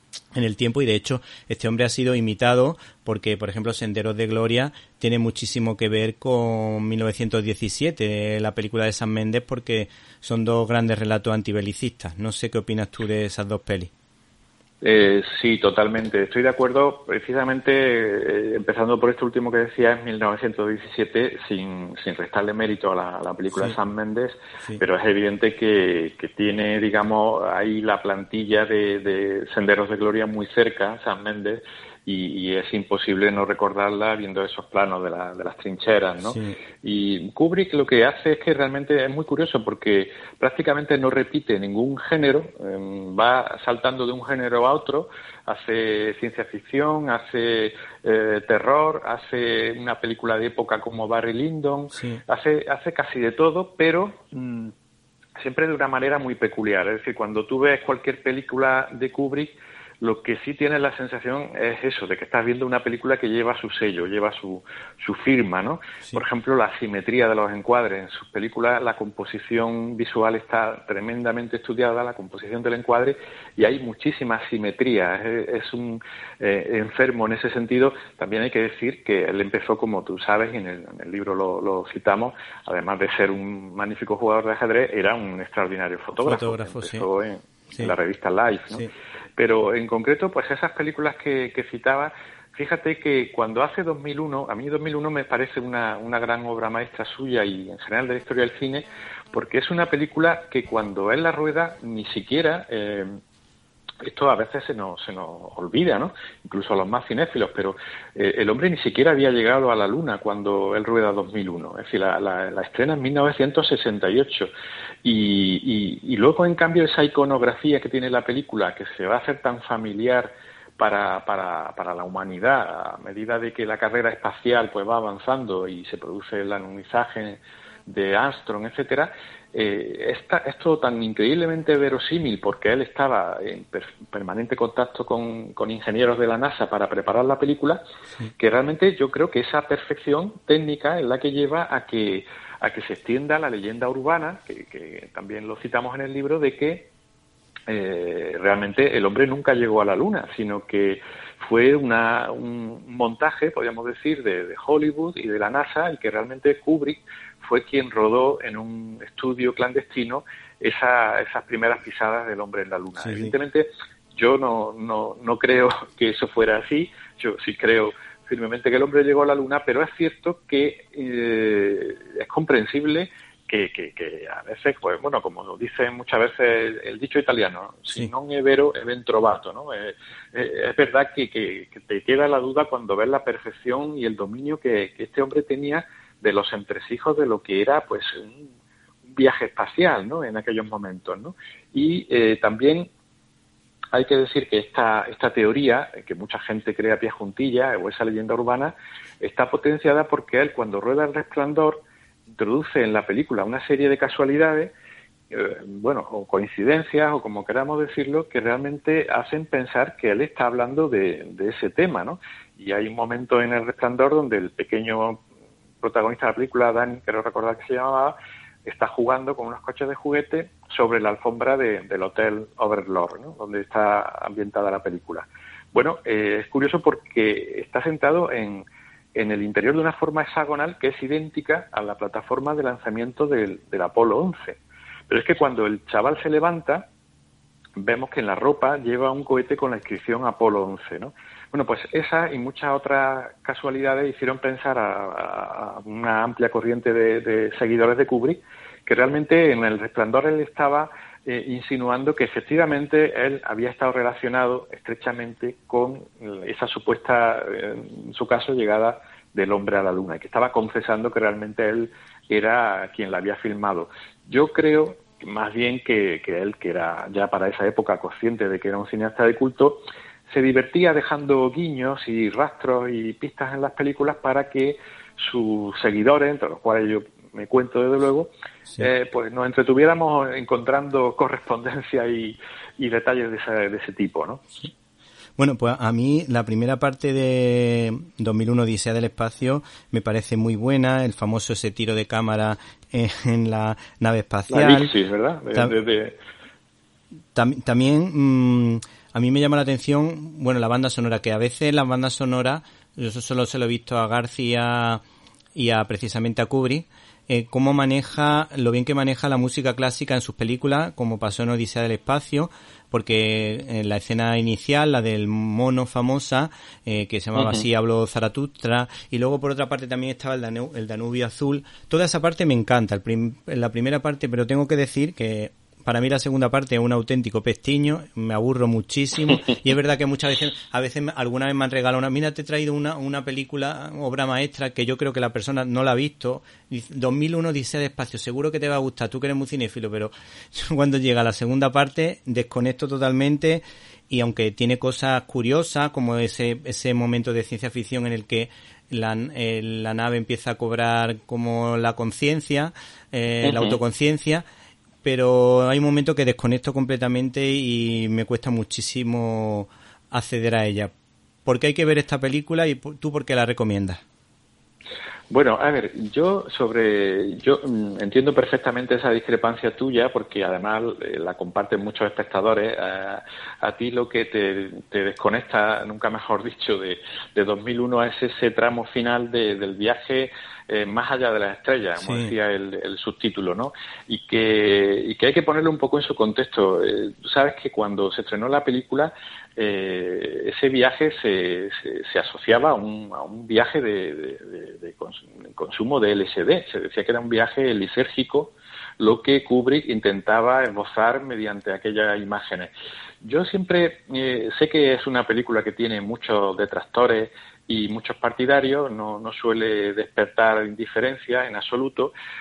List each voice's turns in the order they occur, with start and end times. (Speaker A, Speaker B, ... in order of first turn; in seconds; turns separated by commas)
Speaker A: 0.3-13.9, Speaker B: 14.8-54.7, Speaker A: 51.9-52.2, Speaker B: 55.4-103.2, Speaker A: 86.2-87.0, Speaker B: 104.0-114.5, Speaker B: 115.0-137.8, Speaker B: 138.4-146.9, Speaker B: 147.7-188.5, Speaker A: 163.0-163.3, Speaker B: 189.0-192.9, Speaker B: 193.9-204.7, Speaker B: 205.3-215.2, Speaker B: 215.8-236.9, Speaker B: 237.8-284.4, Speaker A: 285.4-294.9, Speaker B: 294.5-296.2, Speaker A: 297.3-305.0, Speaker A: 305.5-354.4, Speaker B: 317.4-317.6, Speaker B: 353.4-353.8, Speaker A: 355.0-360.9, Speaker A: 361.4-364.0, Speaker B: 365.3-402.7, Speaker A: 382.0-382.3, Speaker B: 403.2-412.1